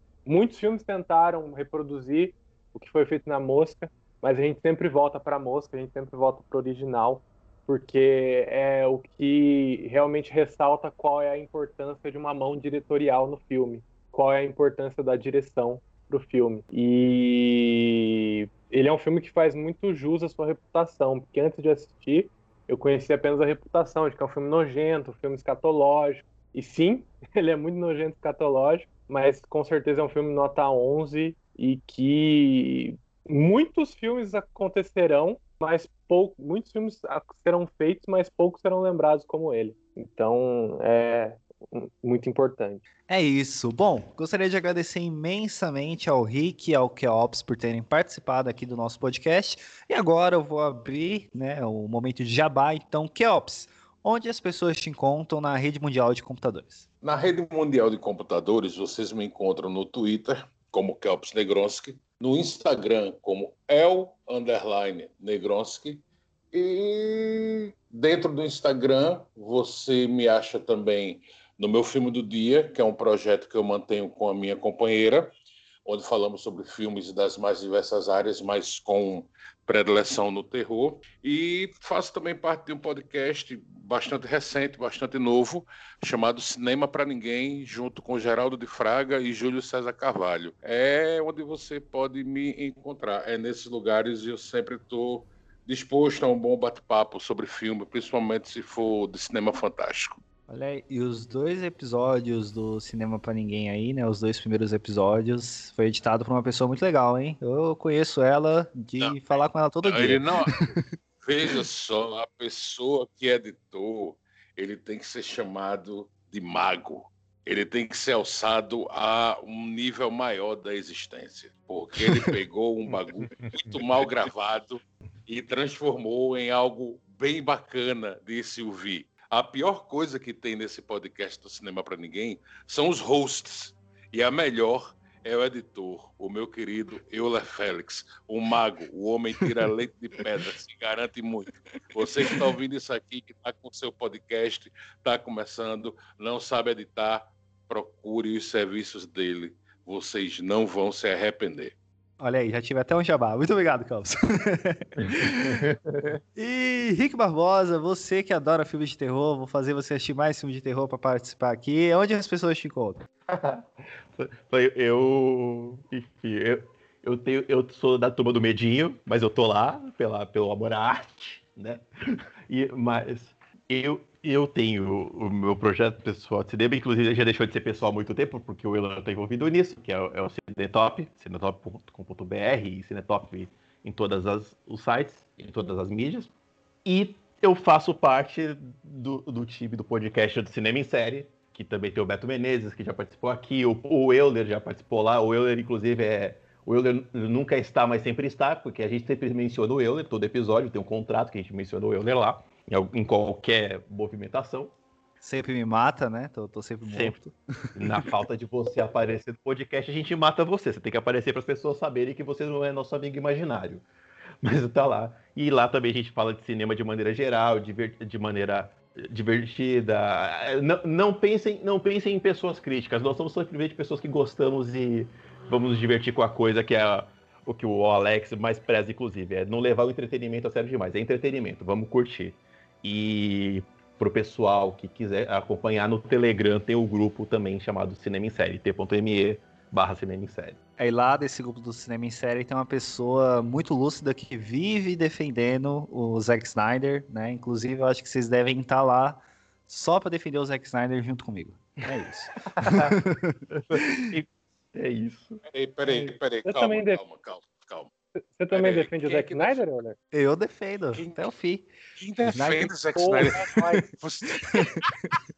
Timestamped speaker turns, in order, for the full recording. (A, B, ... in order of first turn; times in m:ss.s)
0:00.2-0:42.8 A
0:43.1-0:56.8 B
0:57.0-1:15.3 C
1:15.8-1:40.2 C
1:40.5-1:50.9 B
1:49.8-1:50.6 C
1:51.2-2:31.7 C
2:32.2-2:35.7 B
2:35.0-2:36.2 D
2:36.4-2:43.0 B
2:43.3-3:06.3 D
3:06.8-3:24.7 D
3:25.2-3:28.1 B
3:26.8-3:27.1 D
3:27.8-3:33.8 D
3:34.4-4:00.6 D
4:00.8-4:14.0 B
4:12.5-4:13.0 D
4:13.5-4:15.4 D
4:15.5-4:17.9 C
4:15.8-4:17.0 A
4:18.2-4:20.0 A
4:18.5-4:19.6 C
4:20.1-4:21.7 B
4:21.0-4:21.3 C
4:22.0-4:25.1 C
4:22.3-4:23.4 B
4:22.9-4:23.9 A
4:24.4-4:24.7 B